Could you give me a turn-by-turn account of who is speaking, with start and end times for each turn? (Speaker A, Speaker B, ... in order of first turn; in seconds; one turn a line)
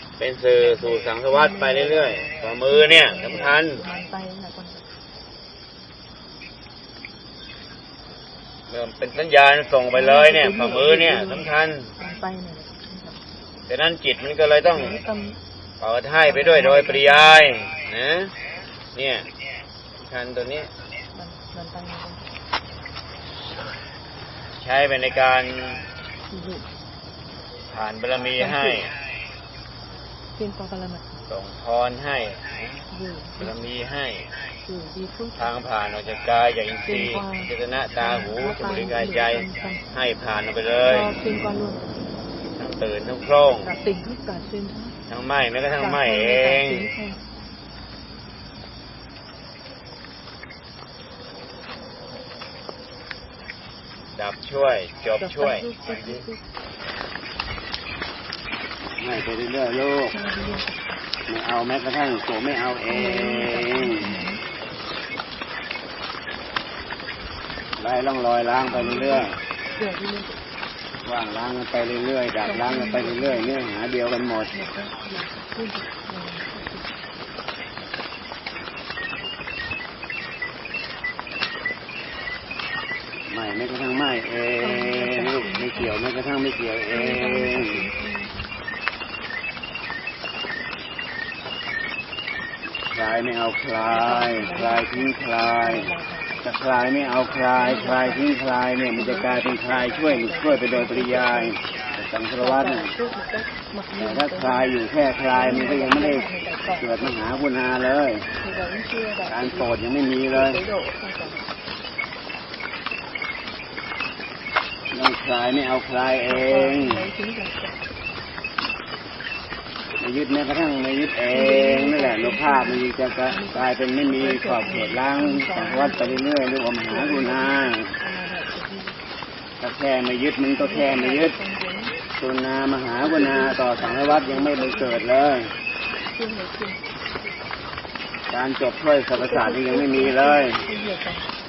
Speaker A: 0.2-3.8
Speaker B: 0.6-4.9
Speaker A: 8.7-11.9
Speaker B: 9.9-13.2
Speaker A: 13.7-15.0
Speaker B: 14.7-15.4
Speaker A: 15.8-18.3
Speaker B: 16.2-17.5
Speaker A: 18.9-19.3
Speaker A: 20.0-20.7
Speaker B: 21.1-22.2
Speaker A: 24.6-25.9
Speaker B: 26.3-26.7
Speaker A: 27.7-28.9
Speaker B: 28.4-28.8
Speaker B: 30.4-31.2
Speaker A: 31.3-32.9
Speaker B: 32.9-33.5
Speaker A: 33.4-34.3
Speaker B: 34.6-35.5
Speaker A: 35.4-41.1
Speaker B: 36.9-39.8
Speaker B: 40.9-41.8
Speaker A: 42.6-43.7
Speaker B: 43.6-45.0
Speaker A: 45.1-46.9
Speaker B: 45.8-47.2
Speaker A: 54.2-56.2
Speaker B: 55.2-56.4
Speaker A: 59.0-60.1
Speaker B: 60.1-61.0
Speaker A: 61.3-64.2
Speaker B: 62.9-64.4
Speaker A: 67.8-69.4
Speaker B: 68.7-70.4
Speaker A: 71.0-74.5
Speaker B: 72.4-73.6
Speaker B: 74.5-76.9
Speaker A: 83.3-87.8
Speaker B: 84.6-85.9
Speaker B: 86.9-88.5
Speaker A: 92.9-95.9
Speaker B: 93.9-96.4
Speaker A: 96.4-102.9
Speaker B: 97.5-98.3
Speaker B: 99.0-101.6
Speaker B: 102.4-104.7
Speaker A: 104.0-106.3
Speaker B: 105.3-107.4
Speaker A: 106.8-108.3
Speaker B: 108.4-109.7
Speaker A: 109.3-110.6
Speaker B: 110.3-111.4
Speaker A: 114.9-117.0
Speaker B: 116.3-117.8
Speaker A: 120.0-127.9
Speaker B: 121.3-126.3
Speaker B: 126.9-129.0
Speaker A: 129.6-131.3
Speaker B: 130.6-132.0
Speaker A: 132.2-135.5
Speaker B: 133.0-135.1
Speaker B: 136.1-136.8
Speaker A: 138.3-140.6
Speaker B: 139.1-141.3